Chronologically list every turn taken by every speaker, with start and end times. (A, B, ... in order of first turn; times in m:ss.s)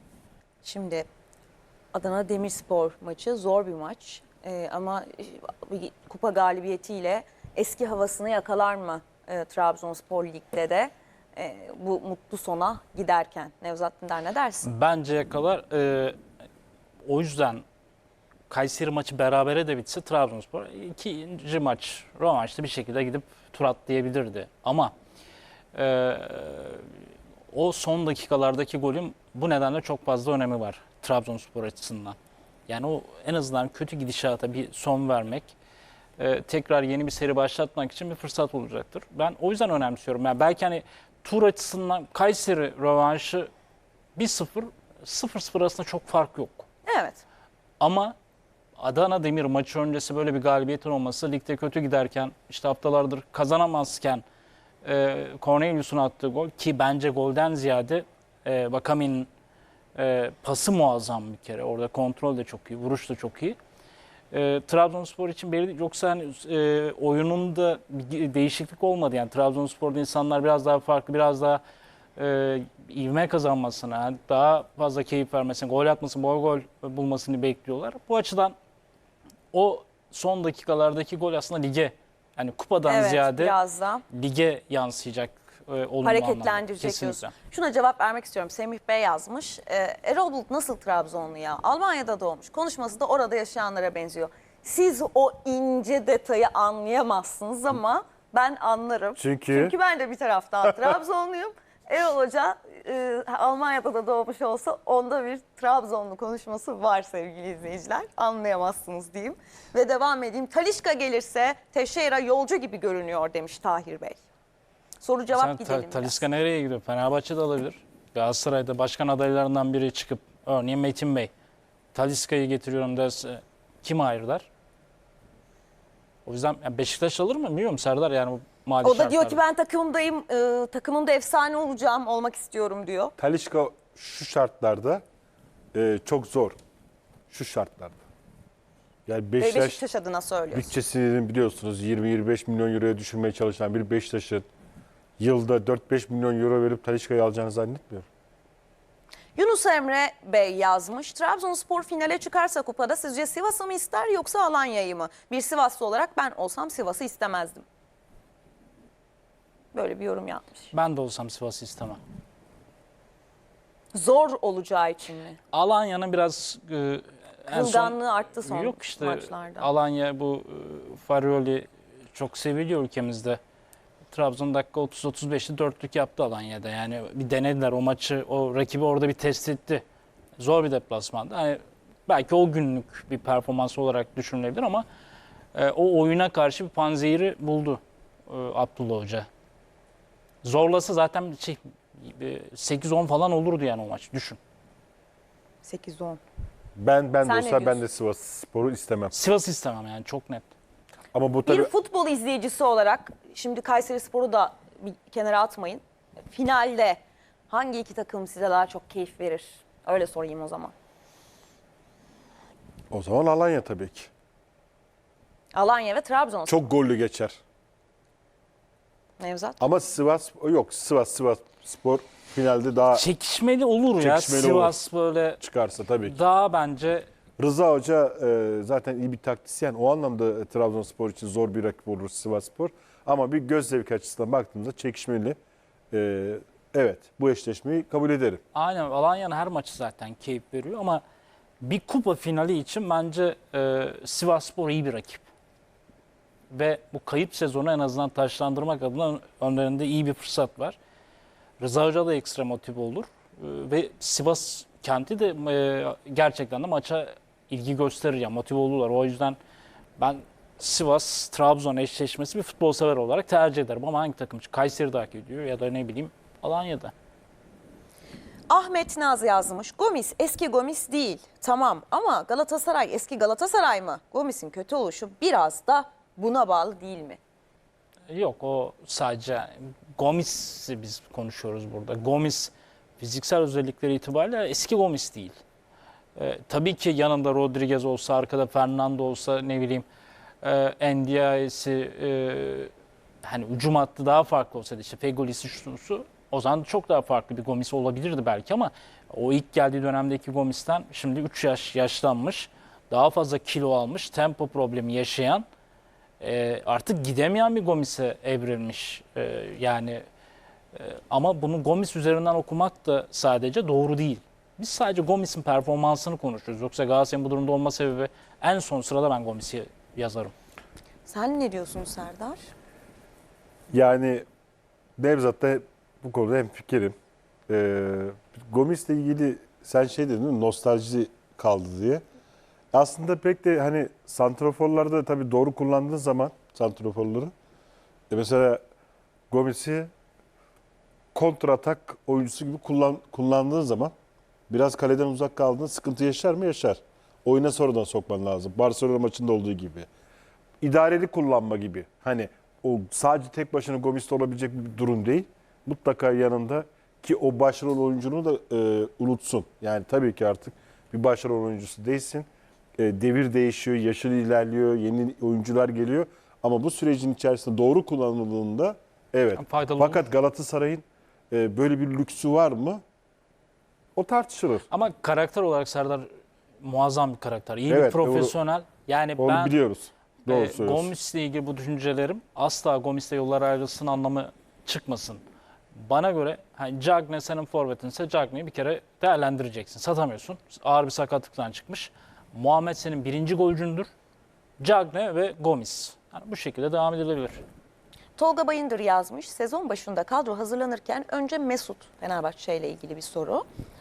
0:00.6-0:01.0 A
0:01.9-0:14.7 A
0:14.6-0:16.2 B
0:17.0-0:17.6 B
0:18.5-0:24.9 B
0:25.7-0:26.9 B
0:27.5-0:32.2 B
0:32.7-0:35.5 B
0:36.2-0:43.5 B
0:44.2-0:46.6 B
0:46.8-0:47.2 A
0:47.8-0:48.1 B
0:48.8-0:54.2 B
0:54.8-0:59.3 B
0:59.9-1:03.6 B
1:04.3-1:11.6 B
1:12.2-1:18.5 B
1:19.5-1:23.6 B
1:22.8-1:24.0 A
1:24.1-1:27.3 B
1:26.0-1:54.2 A
1:39.2-1:39.7 C
1:55.0-1:56.2 A
1:55.3-2:01.3 B
2:01.9-2:04.5 B
2:06.2-2:09.4 B
2:08.8-2:13.1 A
2:13.2-2:15.0 C
2:15.7-2:16.5 C
2:17.3-2:18.0 C
2:19.0-2:19.8 C
2:19.4-2:20.7 A
2:20.5-2:24.4 C
2:25.2-2:28.0 C
2:29.3-2:37.6 A
2:39.7-2:40.7 A
2:40.7-2:42.0 B
2:43.9-2:45.4 A
2:45.5-2:53.4 B
2:47.5-2:49.7 A
2:54.1-2:59.8 B
3:00.4-3:04.8 B
3:05.5-3:09.3 B
3:10.4-3:14.4 B
3:15.6-3:16.2 A
3:16.8-3:19.1 C
3:17.2-3:17.8 A
3:19.1-3:20.5 B
3:21.1-3:21.7 C
3:21.4-3:27.0 A
3:27.5-3:30.7 A
3:32.9-3:34.1 C
3:35.5-3:36.5 A
3:36.5-3:37.4 C
3:39.2-3:39.6 A
3:39.6-3:43.0 C
3:42.9-3:45.4 B
3:44.0-3:44.7 C
3:45.4-3:46.2 C
3:46.0-3:47.1 B
3:47.4-3:55.4 C
3:55.9-3:58.4 C
3:58.5-4:01.0 B
4:01.6-4:05.2 B
4:06.5-4:10.8 B
4:11.6-4:19.4 B
4:20.0-4:26.9 B
4:28.5-4:37.2 A
4:38.1-4:45.3 B
4:46.2-4:49.8 B
4:50.4-4:52.7 B
4:53.2-5:05.4 B
5:06.2-5:10.0 B
5:10.7-5:20.3 B
5:21.0-5:22.4 A
5:23.7-5:24.2 C
5:25.0-5:26.9 C
5:27.5-5:32.0 C
5:32.7-5:37.3 C
5:38.1-5:38.6 C
5:39.3-5:39.9 C
5:41.1-5:43.9 C
5:44.5-5:49.9 C
5:50.6-6:02.3 C
6:02.8-6:12.8 C
6:09.4-6:10.1 B
6:14.0-6:14.7 C
6:14.7-6:16.1 B
6:16.6-6:19.5 B
6:17.7-6:18.3 C
6:19.2-6:20.9 C
6:20.2-6:25.2 B
6:25.7-6:33.9 B
6:34.6-6:37.4 B
6:38.2-6:43.4 A